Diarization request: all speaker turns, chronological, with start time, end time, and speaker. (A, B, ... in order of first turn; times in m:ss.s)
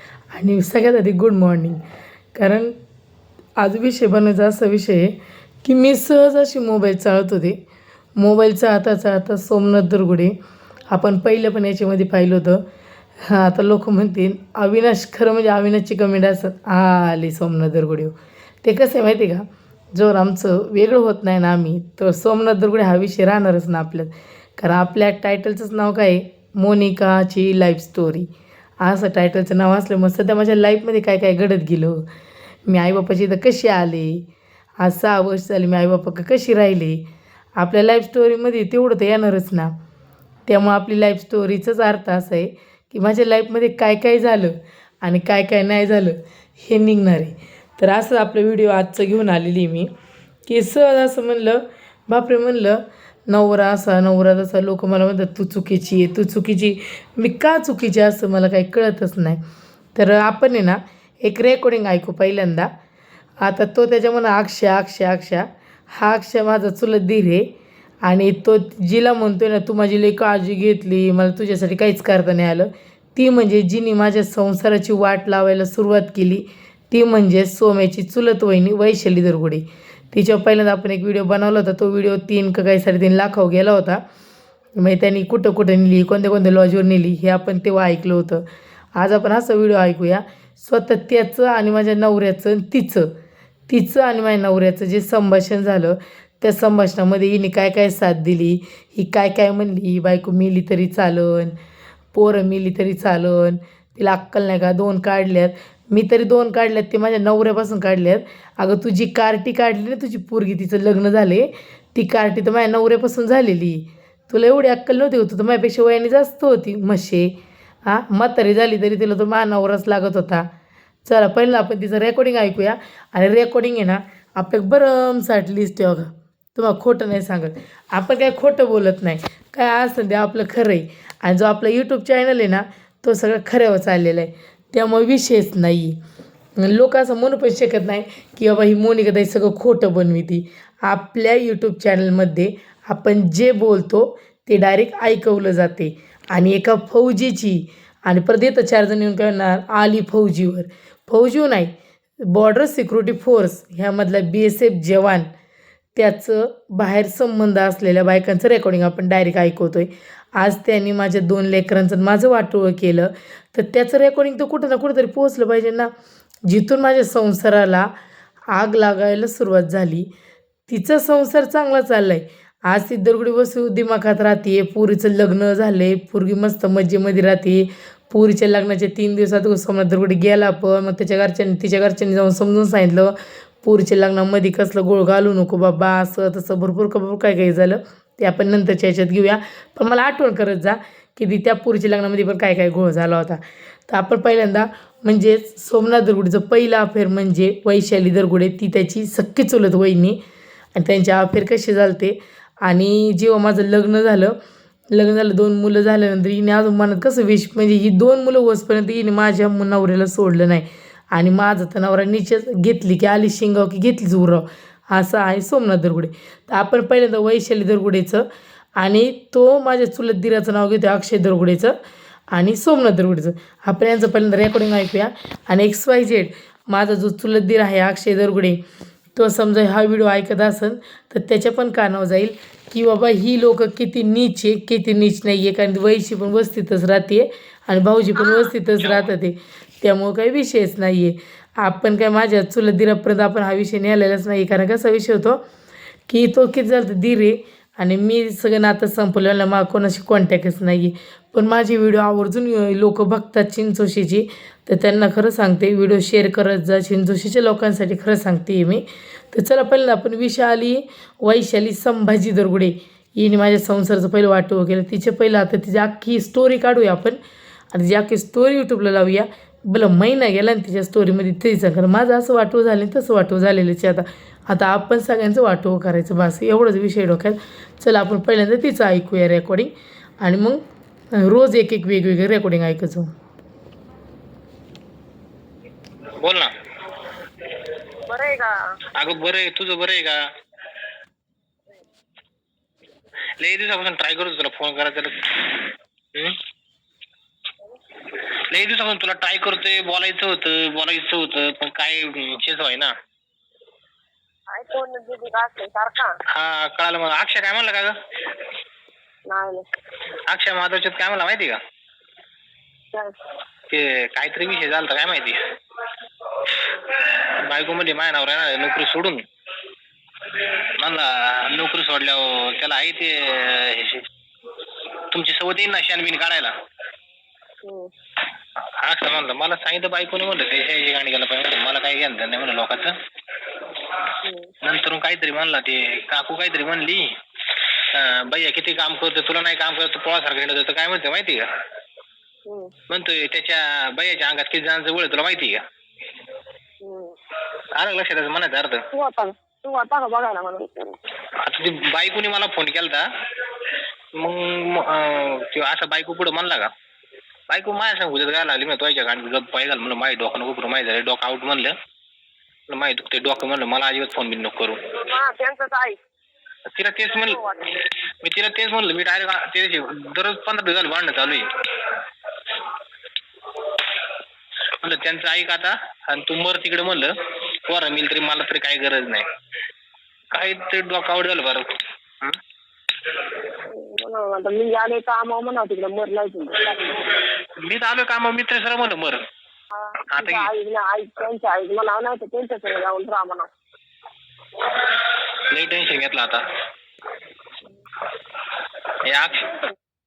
0:00.3-0:01.8 A
0:02.4-0:02.8 A
0:03.6-0:07.6 A
0:08.2-0:10.4 A
0:10.9-0:12.6 A
0:13.2-0:28.3 A
0:28.8-0:32.0 A
0:32.7-0:34.2 A
0:34.8-0:37.0 A
0:37.6-0:39.7 A
0:40.5-0:49.9 A
0:50.5-0:59.4 A
1:00.0-1:02.7 A
1:03.4-1:07.5 A
1:08.0-1:24.0 A
1:24.8-1:28.4 A
1:29.0-1:33.1 A
1:33.7-1:41.6 A
1:42.1-1:57.3 A
1:57.9-2:00.5 A
2:01.0-2:16.0 A
2:16.6-2:35.3 A
2:36.0-2:45.9 A
2:46.5-2:47.9 A
2:48.5-2:50.1 A
2:50.7-3:20.2 A
3:20.8-3:24.4 A
3:24.9-3:38.3 A
3:38.8-3:41.8 A
3:42.3-3:48.6 A
3:49.2-4:05.4 A
3:58.2-3:58.5 B
4:06.1-4:27.2 A
4:27.7-4:39.7 A
4:40.2-4:40.6 A
4:41.2-4:43.1 A
4:46.2-4:46.5 C
4:48.1-4:48.5 B
4:49.0-4:50.2 C
4:53.4-4:56.4 C
4:58.5-5:02.9 C
5:04.5-5:06.1 B
5:06.3-5:08.0 C
5:09.3-5:09.7 B
5:10.3-5:11.6 C
5:13.7-5:15.4 C
5:16.5-5:19.2 C
5:20.8-5:24.1 C
5:25.1-5:26.5 C
5:27.6-5:27.9 B
5:28.8-5:33.0 C
5:34.2-5:34.5 B
5:34.6-5:37.1 C
5:37.9-5:41.5 C
5:42.5-5:42.7 B
5:42.9-5:45.6 C
5:46.8-5:47.2 B
5:47.8-5:48.8 C
5:48.9-5:51.0 B
5:51.4-5:53.0 C
5:54.2-5:56.7 C
5:57.5-6:01.7 C
6:02.7-6:04.8 C
6:05.0-6:06.0 B
6:06.7-6:07.4 C
6:07.2-6:07.8 B
6:08.2-6:11.5 C
6:14.8-6:17.1 C
6:17.7-6:19.3 C
6:20.3-6:22.4 C
6:23.7-6:27.1 B
6:27.6-6:29.2 C
6:29.7-6:33.5 B
6:30.1-6:30.5 C
6:35.5-6:36.4 C
6:39.1-6:39.6 C